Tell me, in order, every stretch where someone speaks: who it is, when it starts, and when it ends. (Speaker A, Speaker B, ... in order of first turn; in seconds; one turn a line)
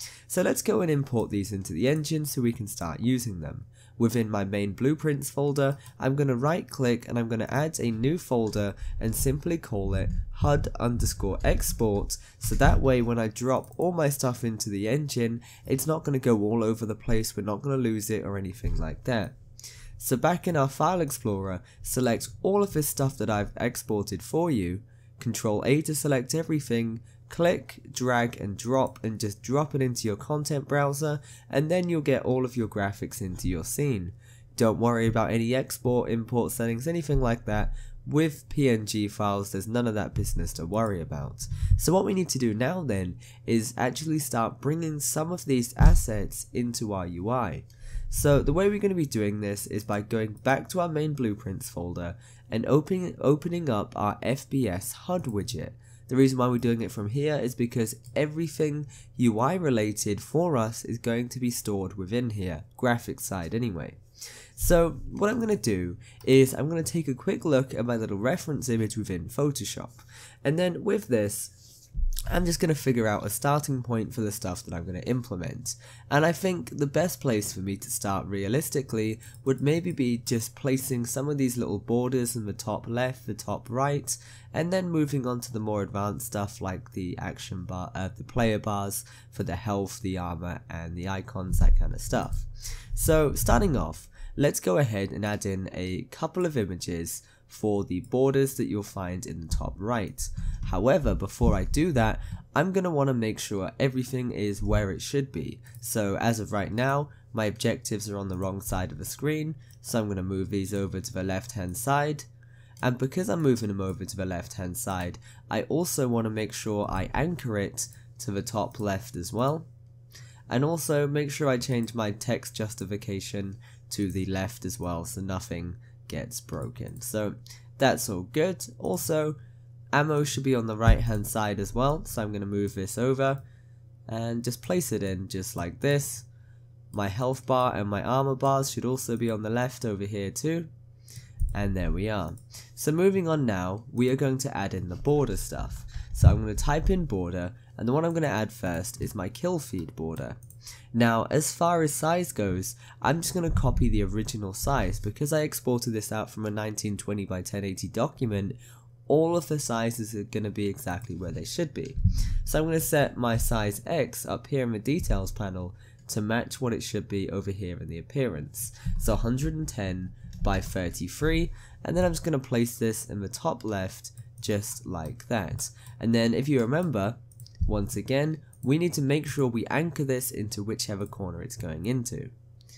Speaker A: 0.3-19.4
Speaker A: 20.0-64.0
Speaker A: 64.5-71.7
Speaker A: 72.3-112.3
Speaker A: 112.8-119.7
Speaker A: 120.5-129.4
Speaker A: 129.9-133.4
Speaker A: 134.1-136.3
Speaker A: 136.9-140.7
Speaker A: 141.5-150.4
Speaker A: 150.9-182.3